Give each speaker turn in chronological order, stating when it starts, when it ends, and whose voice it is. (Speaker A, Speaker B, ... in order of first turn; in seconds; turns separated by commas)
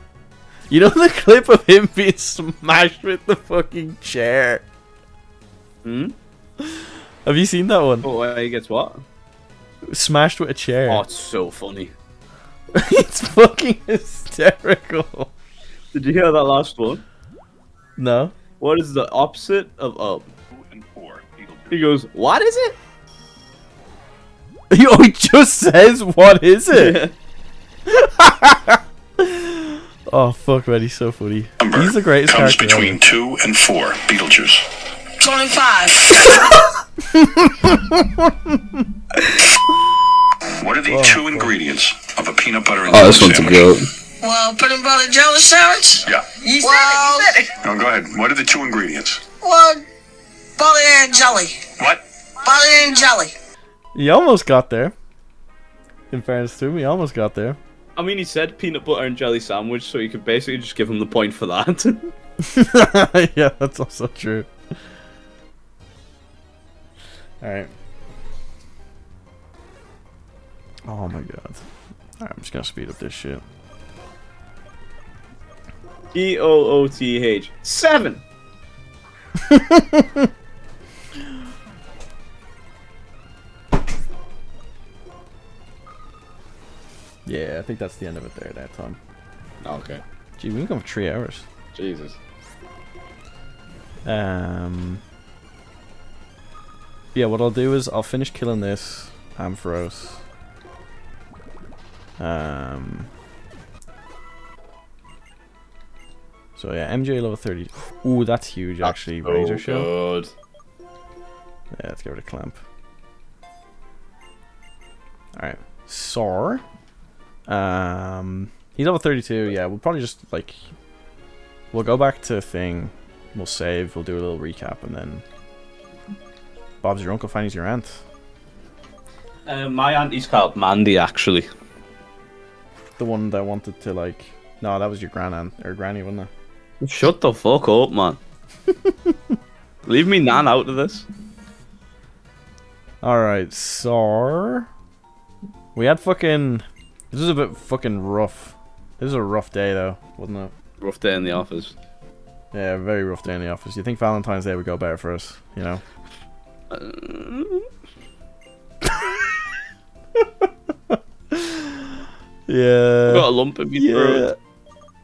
Speaker A: 0.7-4.6, Speaker B: 5.8-6.2, Speaker A: 6.6-8.1, Speaker B: 8.0-9.0, Speaker A: 9.9-11.0, Speaker B: 10.9-11.9, Speaker A: 12.8-15.3, Speaker B: 15.9-17.0, Speaker A: 18.0-18.4, Speaker B: 18.6-20.3, Speaker C: 20.6-21.8, Speaker B: 21.7-22.8, Speaker A: 24.7-27.0, Speaker B: 26.7-27.1, Speaker A: 27.9-33.0, Speaker C: 31.6-34.6, Speaker D: 35.2-36.6, Speaker A: 37.1-38.8, Speaker C: 40.6-43.7, Speaker A: 40.9-41.5, Speaker B: 42.9-43.9, Speaker D: 44.2-47.5, Speaker C: 46.0-49.4, Speaker B: 46.6-47.3, Speaker D: 49.4-49.8, Speaker D: 50.6-51.7, Speaker D: 52.4-53.3, Speaker A: 54.0-54.9, Speaker A: 56.1-57.6, Speaker B: 58.0-62.1, Speaker A: 62.4-64.5, Speaker A: 67.4-67.7, Speaker A: 70.9-71.7, Speaker A: 72.2-73.4, Speaker B: 76.1-78.2, Speaker A: 79.4-80.3, Speaker A: 87.3-89.0, Speaker B: 89.6-90.0, Speaker A: 90.4-91.5, Speaker B: 91.7-92.2, Speaker A: 94.0-95.0, Speaker A: 97.2-100.2, Speaker A: 102.2-103.1, Speaker A: 106.6-109.9, Speaker B: 108.8-110.3, Speaker A: 111.7-112.6, Speaker A: 115.4-116.6, Speaker A: 117.5-120.7, Speaker A: 121.7-125.2, Speaker A: 126.8-128.0, Speaker B: 129.5-131.5, Speaker A: 133.0-136.3, Speaker B: 136.8-138.2, Speaker A: 138.8-139.2, Speaker B: 139.8-141.1, Speaker A: 143.0-144.7, Speaker A: 145.8-150.5, Speaker B: 150.8-151.8, Speaker A: 152.5-155.8, Speaker B: 156.7-157.7, Speaker A: 158.8-159.2, Speaker A: 160.2-161.9, Speaker A: 162.5-164.4, Speaker B: 163.1-164.3